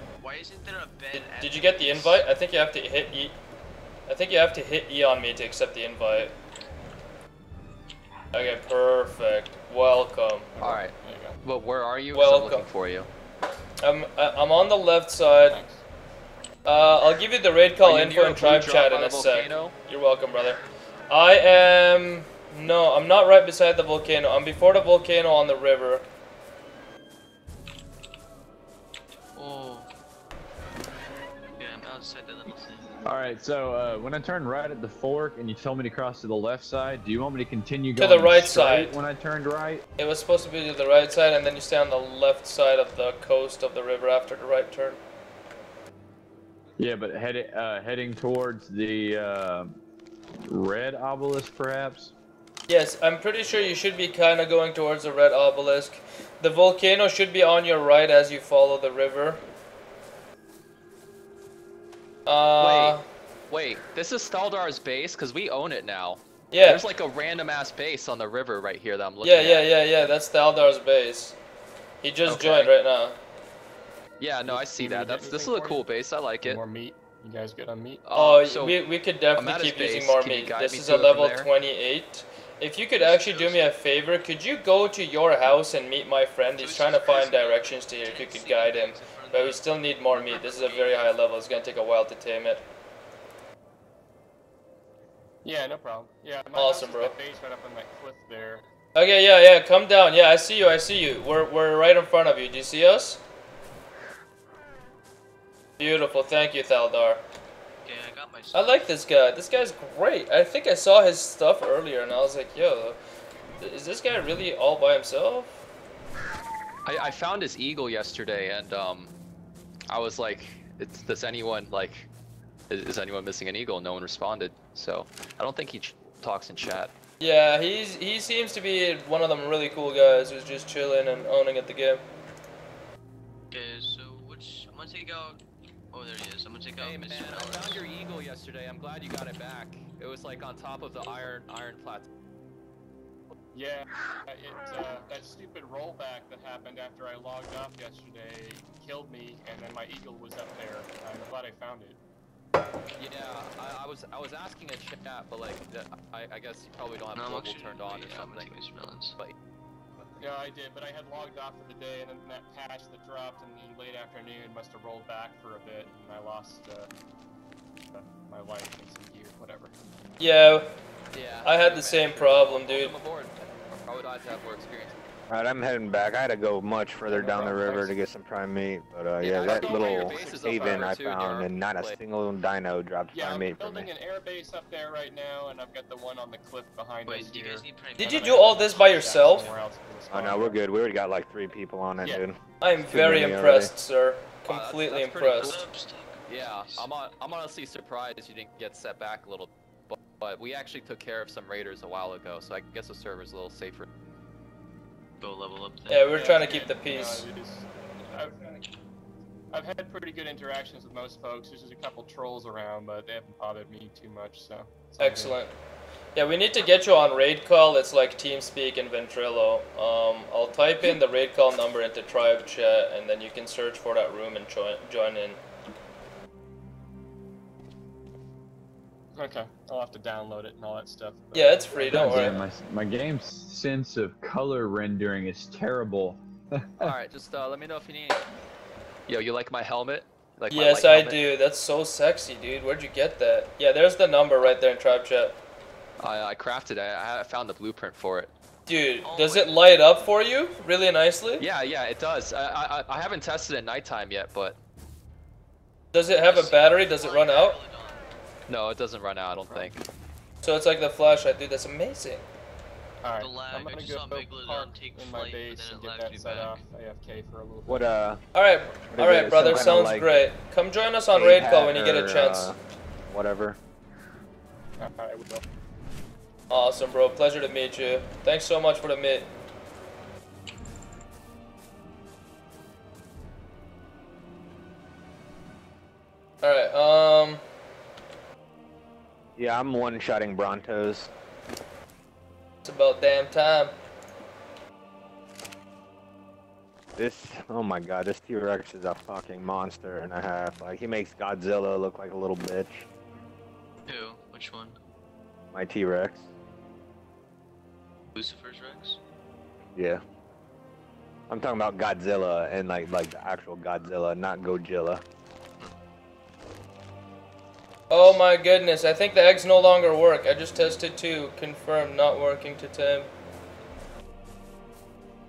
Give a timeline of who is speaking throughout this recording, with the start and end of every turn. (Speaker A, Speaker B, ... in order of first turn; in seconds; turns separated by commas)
Speaker A: 0.2-2.2, Speaker B: 1.1-3.4, Speaker B: 4.1-6.3, Speaker B: 8.3-10.5, Speaker C: 10.5-11.4, Speaker D: 10.6-13.1, Speaker B: 12.1-12.7, Speaker B: 13.8-15.6, Speaker C: 15.5-15.8, Speaker B: 16.6-26.1, Speaker D: 17.8-19.7, Speaker A: 29.4-29.9, Speaker A: 31.6-32.9, Speaker E: 33.0-39.8, Speaker B: 38.0-39.0, Speaker B: 40.0-45.0, Speaker E: 46.8-49.7, Speaker E: 50.5-52.1, Speaker B: 52.7-59.4, Speaker B: 62.2-63.0, Speaker D: 62.6-63.0, Speaker D: 63.5-69.7, Speaker B: 66.5-66.8, Speaker B: 69.2-71.3, Speaker B: 72.0-73.2, Speaker D: 72.2-72.7, Speaker D: 74.2-76.6, Speaker C: 74.5-75.8, Speaker C: 76.4-78.0, Speaker D: 78.0-78.8, Speaker B: 78.1-92.6, Speaker D: 79.3-81.5, Speaker A: 83.0-83.7, Speaker A: 86.6-91.0, Speaker C: 95.4-98.6, Speaker B: 96.5-97.1, Speaker B: 98.9-103.2, Speaker B: 105.8-107.2, Speaker A: 107.8-108.8, Speaker B: 108.5-113.0, Speaker B: 113.6-115.6, Speaker D: 116.8-119.1, Speaker D: 119.9-122.1, Speaker D: 122.7-126.9, Speaker B: 127.2-132.0, Speaker A: 133.5-135.4, Speaker A: 135.9-137.8, Speaker D: 136.8-142.1, Speaker C: 143.5-152.0, Speaker D: 153.0-158.5, Speaker A: 157.1-159.1, Speaker C: 160.2-166.9, Speaker C: 167.9-169.7, Speaker B: 170.2-170.7, Speaker D: 171.1-175.0, Speaker B: 171.4-172.9, Speaker F: 175.3-183.9, Speaker C: 177.1-177.9, Speaker D: 179.2-182.0, Speaker C: 179.4-180.9, Speaker C: 183.1-190.6, Speaker A: 187.1-189.5, Speaker B: 188.0-189.5, Speaker F: 190.1-193.7, Speaker B: 192.6-195.5, Speaker D: 194.4-195.7, Speaker A: 195.4-196.9, Speaker D: 196.2-203.9, Speaker A: 205.2-206.1, Speaker B: 205.9-207.3, Speaker C: 206.1-208.7, Speaker C: 209.5-215.4, Speaker B: 215.0-215.5, Speaker B: 216.1-225.4, Speaker C: 229.2-232.6, Speaker B: 231.3-232.3, Speaker E: 231.8-236.9, Speaker D: 236.8-238.2, Speaker D: 239.1-241.2, Speaker B: 240.5-245.4, Speaker D: 246.0-248.3, Speaker B: 248.7-251.4, Speaker A: 249.0-249.7, Speaker D: 251.4-254.6, Speaker B: 255.9-257.6, Speaker A: 256.2-258.1, Speaker D: 258.5-259.8, Speaker C: 259.4-259.7, Speaker B: 260.4-262.3, Speaker C: 263.0-267.9, Speaker A: 263.2-266.6, Speaker F: 267.7-268.2, Speaker B: 268.3-272.5, Speaker F: 268.9-270.2, Speaker F: 271.1-272.6, Speaker F: 273.1-273.6, Speaker C: 274.8-275.4, Speaker B: 276.5-279.3, Speaker B: 286.4-287.4, Speaker F: 289.4-291.1, Speaker B: 292.6-293.7, Speaker F: 296.9-302.9, Speaker A: 303.9-304.8, Speaker F: 305.5-306.2, Speaker A: 308.1-309.0, Speaker F: 309.8-310.0, Speaker F: 311.3-315.0, Speaker B: 317.9-323.1